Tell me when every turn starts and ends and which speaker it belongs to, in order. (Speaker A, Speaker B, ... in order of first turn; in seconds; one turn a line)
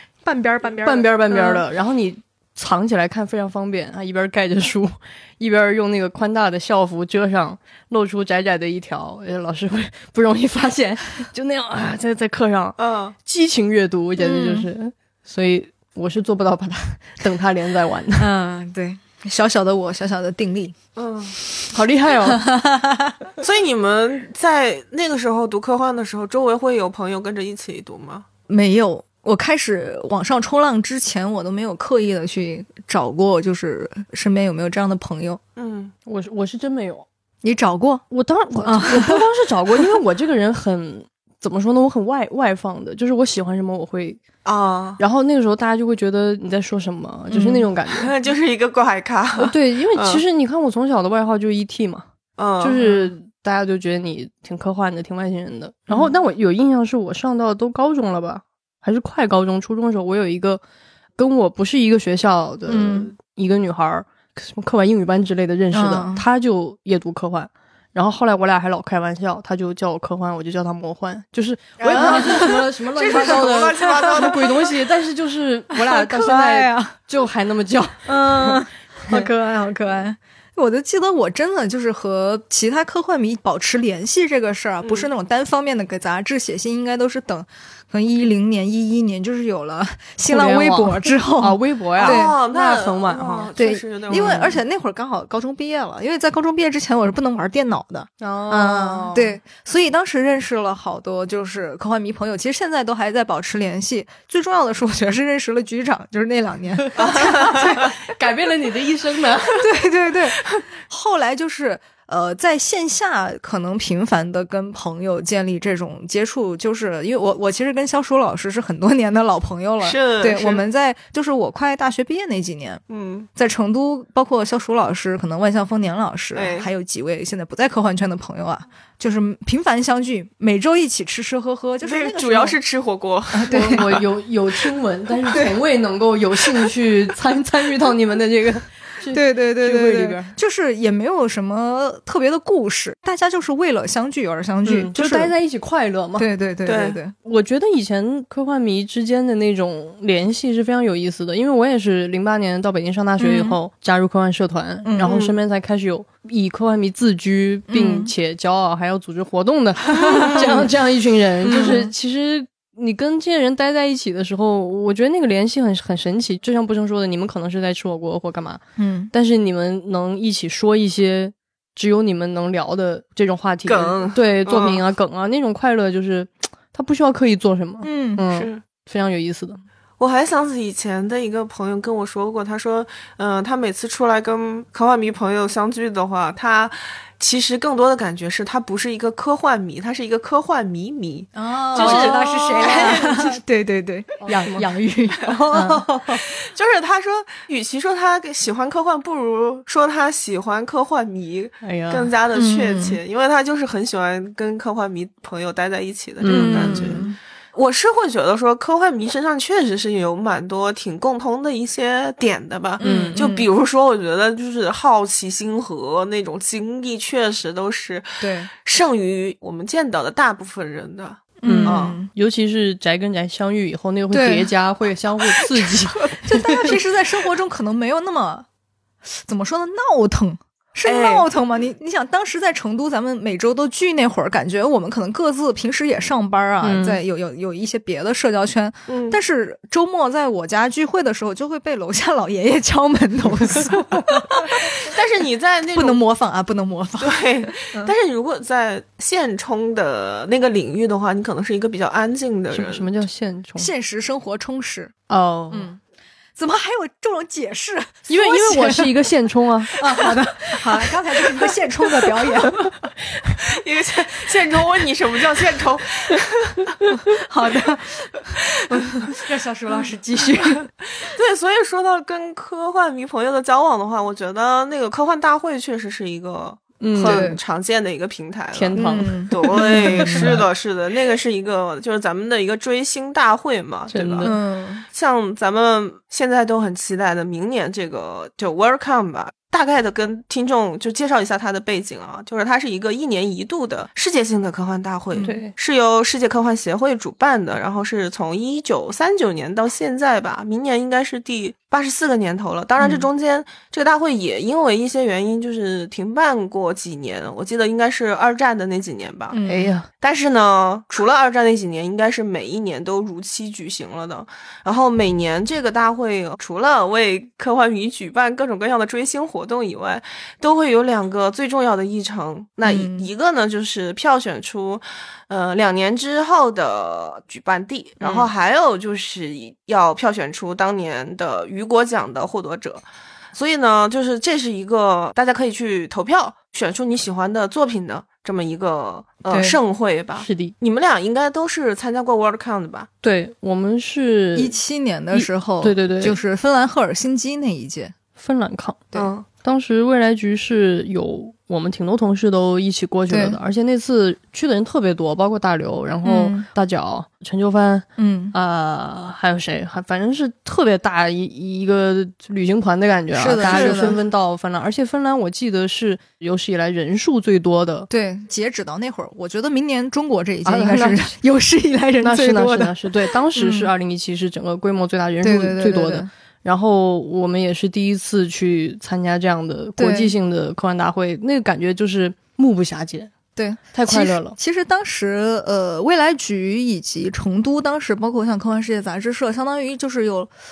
Speaker A: 0.2-1.6
Speaker B: 0.8-18.3
Speaker C: 12.8-13.2
Speaker A: 14.2-14.7
Speaker A: 18.2-20.8
Speaker C: 20.9-21.3
Speaker B: 21.7-22.4
Speaker A: 22.2-23.1
Speaker C: 23.4-28.2
Speaker A: 28.5-35.4
Speaker C: 35.6-35.9
Speaker B: 36.0-37.0
Speaker A: 37.4-38.0
Speaker B: 38.1-44.2
Speaker A: 38.6-39.2
Speaker C: 44.4-45.0
Speaker B: 45.0-48.1
Speaker C: 47.3-50.2
Speaker B: 49.4-52.0
Speaker C: 52.4-53.1
Speaker B: 52.6-60.6
Speaker B: 61.2-79.3
Speaker A: 62.7-63.1
Speaker A: 65.7-66.2
Speaker C: 71.8-74.8
Speaker A: 71.9-74.3
Speaker A: 75.7-77.0
Speaker A: 78.0-92.3
Speaker C: 84.8-85.1
Speaker B: 90.2-93.5
Speaker C: 92.0-94.5
Speaker A: 93.5-108.0
Speaker B: 94.1-94.6
Speaker B: 98.2-99.4
Speaker B: 106.8-109.6
Speaker A: 109.6-122.8
Speaker C: 119.8-120.6
Speaker C: 122.9-123.3
Speaker A: 123.3-132.6
Speaker C: 126.3-126.7
Speaker C: 131.8-134.0
Speaker A: 133.3-133.9
Speaker B: 133.5-140.3
Speaker A: 139.1-145.3
Speaker B: 144.6-146.2
Speaker A: 146.2-147.1
Speaker C: 146.7-147.0
Speaker B: 147.2-168.6
Speaker A: 153.2-153.6
Speaker A: 154.8-155.2
Speaker C: 155.0-155.3
Speaker A: 157.7-158.1
Speaker A: 160.0-160.6
Speaker C: 160.2-160.6
Speaker A: 161.4-161.9
Speaker A: 168.8-169.1
Speaker B: 169.1-179.6
Speaker C: 173.7-174.8
Speaker A: 177.8-178.2
Speaker C: 178.3-178.6
Speaker C: 180.0-193.3
Speaker A: 191.3-196.2
Speaker B: 191.7-193.3
Speaker B: 194.2-194.7
Speaker B: 195.5-196.2
Speaker C: 196.3-222.0
Speaker B: 201.6-202.1
Speaker A: 202.3-203.0
Speaker B: 206.2-207.0
Speaker A: 206.3-207.2
Speaker A: 212.8-213.4
Speaker B: 212.8-213.3
Speaker A: 218.2-218.5
Speaker A: 221.4-222.1
Speaker B: 221.4-226.2
Speaker A: 224.1-224.5
Speaker A: 226.2-228.5
Speaker A: 229.1-244.6
Speaker C: 230.8-231.3
Speaker B: 236.6-237.0
Speaker C: 238.9-239.2
Speaker C: 244.6-246.0
Speaker A: 245.7-247.9
Speaker C: 247.0-252.9
Speaker B: 252.5-253.7
Speaker A: 253.6-254.9
Speaker B: 255.1-255.7
Speaker A: 255.5-255.8
Speaker A: 256.4-258.9
Speaker B: 258.1-260.1
Speaker A: 259.8-262.6
Speaker C: 263.2-266.8
Speaker A: 266.9-270.7
Speaker C: 271.0-284.3
Speaker B: 276.8-277.4
Speaker A: 277.0-277.4
Speaker B: 278.5-280.4
Speaker A: 278.8-280.4
Speaker B: 283.9-284.3
Speaker A: 284.2-284.8
Speaker C: 284.9-309.4
Speaker A: 295.1-295.4
Speaker B: 295.2-295.5
Speaker A: 309.3-309.7
Speaker B: 309.4-309.9
Speaker C: 310.0-332.8
Speaker A: 322.6-323.1
Speaker A: 328.0-328.3
Speaker C: 333.3-342.9
Speaker A: 339.3-339.6
Speaker B: 340.2-340.5
Speaker B: 343.0-344.5
Speaker A: 344.3-347.9
Speaker B: 345.1-346.2
Speaker B: 348.2-367.9
Speaker C: 348.9-349.2
Speaker A: 353.1-353.4
Speaker A: 356.0-356.4
Speaker A: 358.0-358.3
Speaker A: 363.1-364.0
Speaker C: 363.4-363.9
Speaker A: 367.9-373.7
Speaker B: 370.4-371.1
Speaker B: 372.0-383.1
Speaker A: 375.2-376.1
Speaker A: 379.8-380.1
Speaker A: 383.4-390.3
Speaker B: 383.7-384.4